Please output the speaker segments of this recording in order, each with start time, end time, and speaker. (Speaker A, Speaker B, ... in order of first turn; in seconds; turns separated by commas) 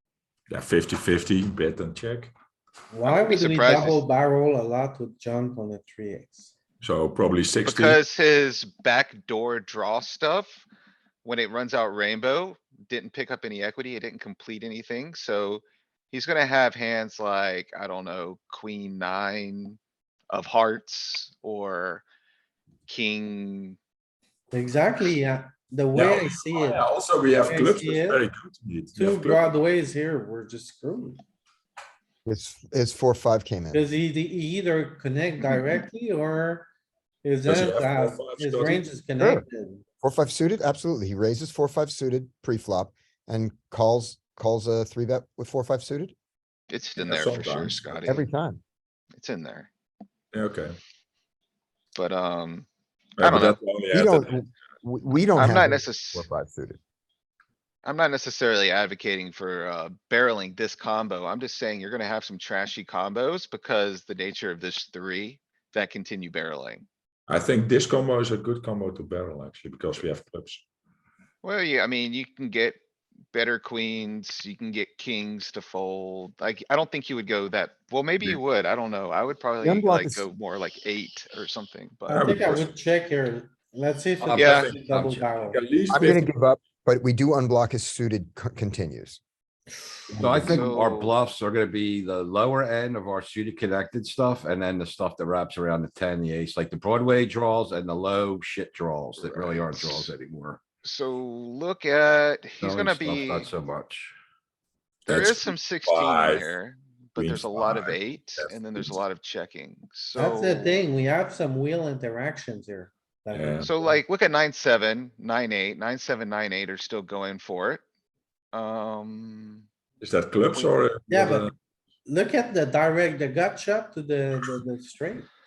Speaker A: 0.5-2.3, Speaker B: 2.9-6.5, Speaker C: 3.0-4.0, Speaker A: 6.8-8.0, Speaker C: 7.6-10.6, Speaker C: 11.2-19.8, Speaker C: 20.3-22.0, Speaker C: 22.9-23.8, Speaker B: 24.5-28.2, Speaker A: 25.9-29.5, Speaker B: 28.9-31.2, Speaker D: 32.2-33.8, Speaker B: 33.7-36.7, Speaker B: 37.2-39.8, Speaker A: 37.4-38.9, Speaker D: 39.2-39.4, Speaker D: 40.0-46.1, Speaker C: 46.7-48.3, Speaker A: 47.0-48.1, Speaker D: 48.0-48.6, Speaker C: 49.2-49.7, Speaker A: 50.3-50.7, Speaker C: 51.9-52.7, Speaker A: 53.2-54.3, Speaker C: 53.2-53.6, Speaker D: 53.9-56.8, Speaker C: 55.4-56.3, Speaker C: 57.8-66.8, Speaker A: 67.3-70.6, Speaker C: 71.4-72.8, Speaker C: 73.3-82.3, Speaker D: 79.6-80.2, Speaker B: 82.1-85.6, Speaker A: 82.1-82.7, Speaker A: 84.2-86.3, Speaker C: 84.3-84.7, Speaker E: 84.9-85.2, Speaker D: 85.9-89.2, Speaker D: 90.1-90.7, Speaker E: 90.2-100.6, Speaker C: 90.4-91.1, Speaker C: 99.2-100.1, Speaker C: 100.8-103.5, Speaker E: 102.6-104.1, Speaker A: 105.0-106.5, Speaker C: 105.0-110.9, Speaker A: 107.2-108.9, Speaker B: 110.1-113.9, Speaker A: 113.3-113.7, Speaker C: 113.6-117.8, Speaker C: 118.5-119.6, Speaker A: 120.0-121.5, Speaker B: 121.1-121.5, Speaker B: 122.0-125.3